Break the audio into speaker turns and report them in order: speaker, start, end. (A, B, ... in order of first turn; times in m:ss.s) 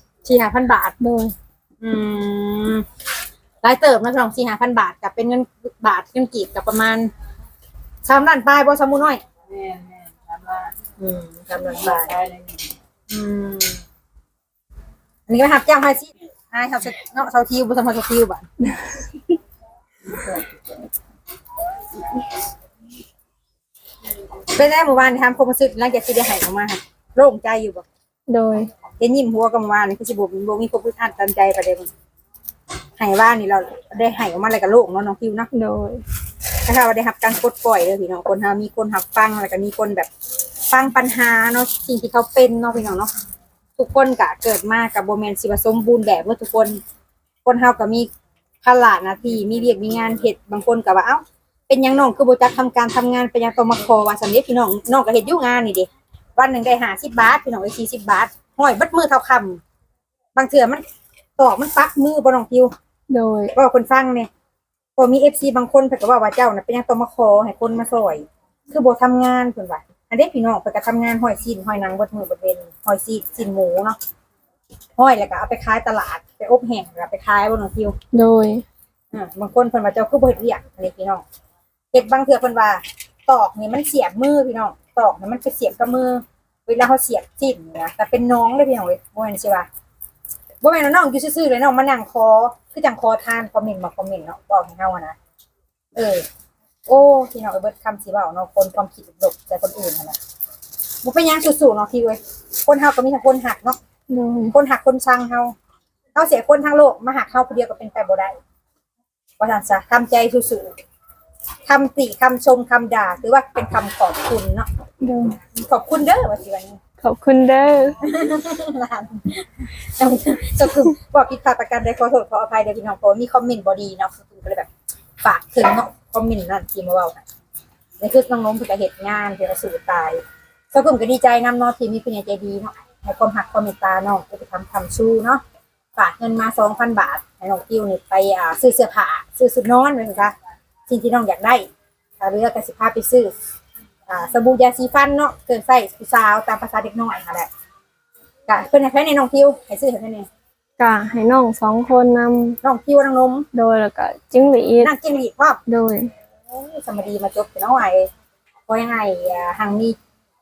0:00.2-0:00.9 A
0:01.0-0:01.3 B
0:01.8-0:02.8 A
0:03.6-0:07.1 A
0:08.0-0:09.2 A
0:09.5-0:10.7 C
0:11.0-0:12.1 A
0:11.6-0:12.6 C
0:13.1-0:13.8 A
0:15.3-0:18.5 A
0:24.5-0:27.8 A
0:28.3-0:28.7 B
0:29.0-0:31.9 A
0:33.0-0:35.5 A
0:35.5-0:36.0 B
0:36.6-0:40.1 A
0:40.7-0:43.1 A
0:43.8-0:46.8 A
0:47.4-0:48.1 A
0:48.6-0:59.6 A
1:00.3-1:00.8 A
1:01.4-1:02.7 A
1:03.1-1:03.5 B
1:03.5-1:04.3 A
1:05.0-1:14.0 A
1:15.0-1:17.9 A
1:18.1-1:18.6 B
1:19.1-1:21.2 A
1:21.9-1:29.7 A
1:30.6-1:35.1 A
1:36.0-1:36.2 A
1:36.9-1:40.2 A
1:41.0-1:43.8 A
1:44.1-1:44.5 B
1:44.5-1:45.5 A
1:46.1-1:48.4 A
1:49.4-1:50.7 A
1:51.6-1:54.7 A
1:55.0-1:55.4 B
1:55.5-1:56.8 A
1:57.0-1:58.0 B
1:58.0-2:04.7 A
2:05.2-2:07.2 A
2:08.0-2:10.2 A
2:10.7-2:15.4 A
2:16.0-2:20.3 A
2:20.9-2:21.7 A
2:22.2-2:23.3 A
2:24.1-2:27.5 A
2:28.5-2:30.3 A
2:30.8-2:32.6 B
2:32.6-2:33.5 A
2:33.5-2:34.9 B
2:34.8-2:35.6 A
2:35.7-2:36.1 B
2:36.5-2:38.1 A
2:38.7-2:40.0 A